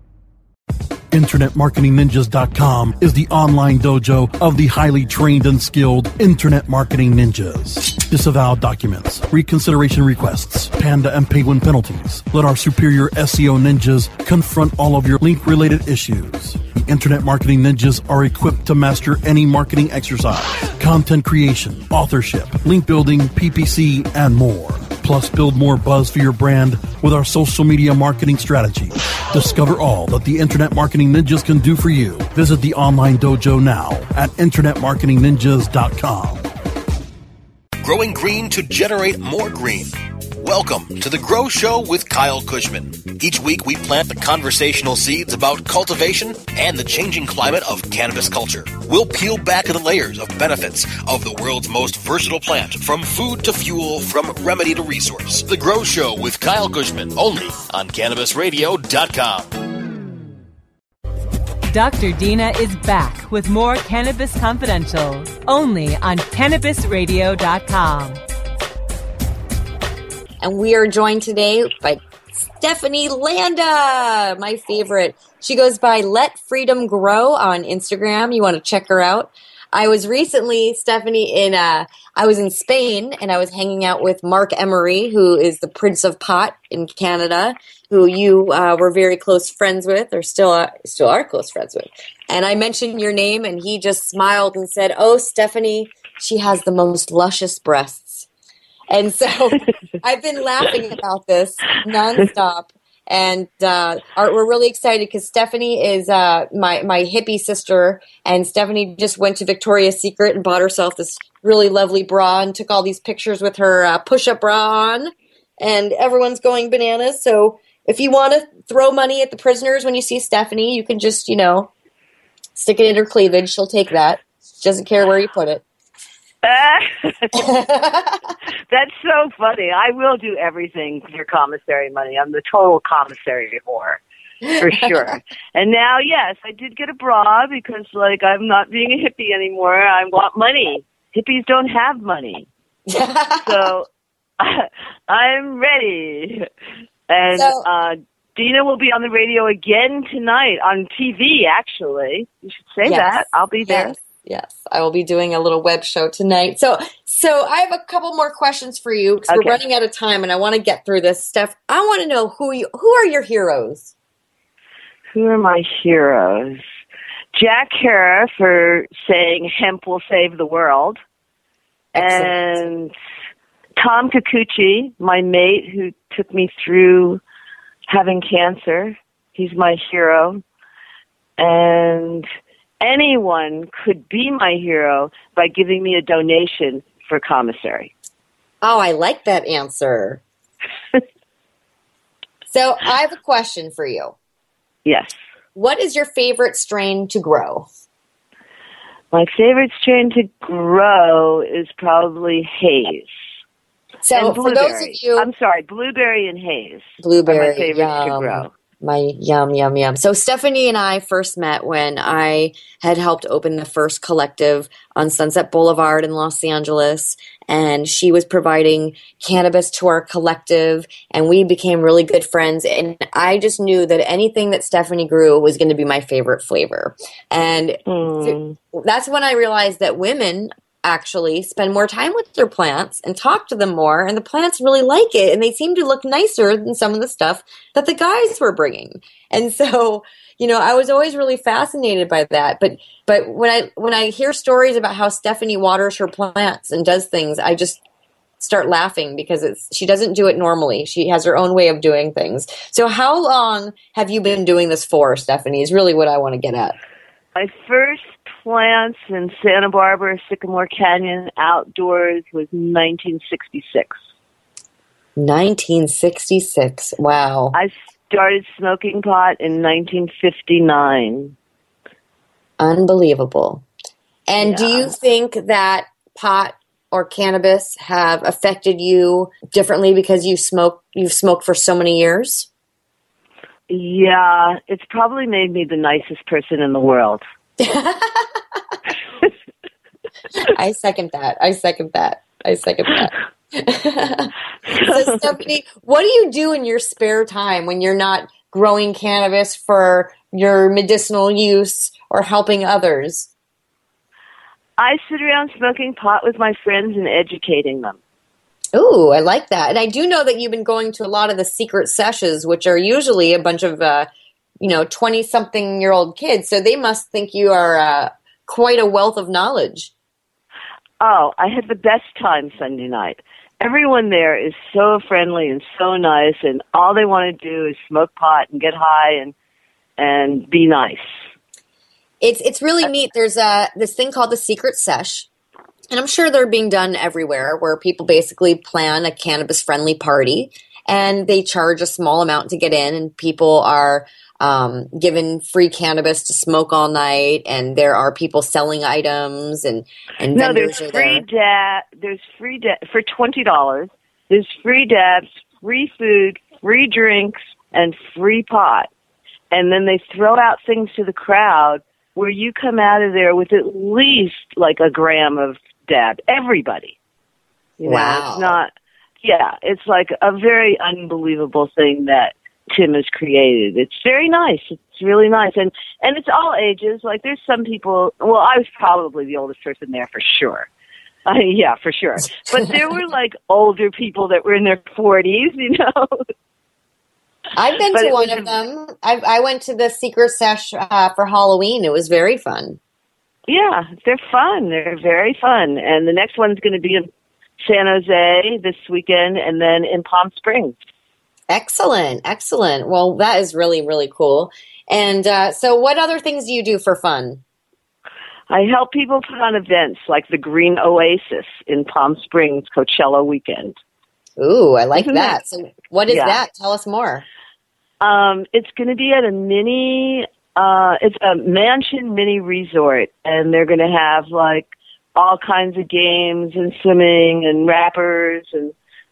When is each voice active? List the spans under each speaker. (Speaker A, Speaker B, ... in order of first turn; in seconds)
Speaker A: 1.1-36.4
Speaker B: 37.8-59.5
Speaker C: 61.7-68.2
Speaker D: 70.4-98.3, 98.9-121.7, 122.5-125.6, 127.3-128.3, 134.4-135.2, 142.9-143.7, 147.3-147.6, 152.8-163.9, 171.9-172.3, 188.6-190.2, 192.5-194.1, 195.6-197.7, 204.0-205.3, 207.0-247.8, 248.4-256.8, 265.2-267.6, 272.6-273.6, 274.3-282.5, 287.6-288.8, 290.4-303.3, 308.7-314.1, 314.6-319.9, 332.2-335.3, 335.9-351.2, 367.8-368.6, 387.5-392.8, 401.5-407.4, 414.4-417.2
Speaker E: 126.4-127.5, 128.7-134.0, 134.6-142.5, 143.4-143.9, 144.4-146.5, 147.1-153.9, 159.3-159.6, 165.1-166.6, 167.3-171.0, 171.9-172.9, 173.8-177.2, 177.9-180.4, 181.4-182.3, 182.8-187.9, 194.8-195.2, 199.1-203.1, 204.1-208.5, 227.9-228.6, 257.3-264.0, 267.5-271.3, 274.4-274.9, 283.7-287.2, 294.7-295.2, 304.8-308.0, 321.0-329.3, 330.0-331.0, 350.3-358.9, 359.5-366.9, 367.8-368.7, 369.2-380.7, 381.2-386.2, 387.9-388.5, 393.5-397.1, 397.6-400.7, 408.5-413.7, 415.0-415.4, 416.1-416.4, 418.0-428.7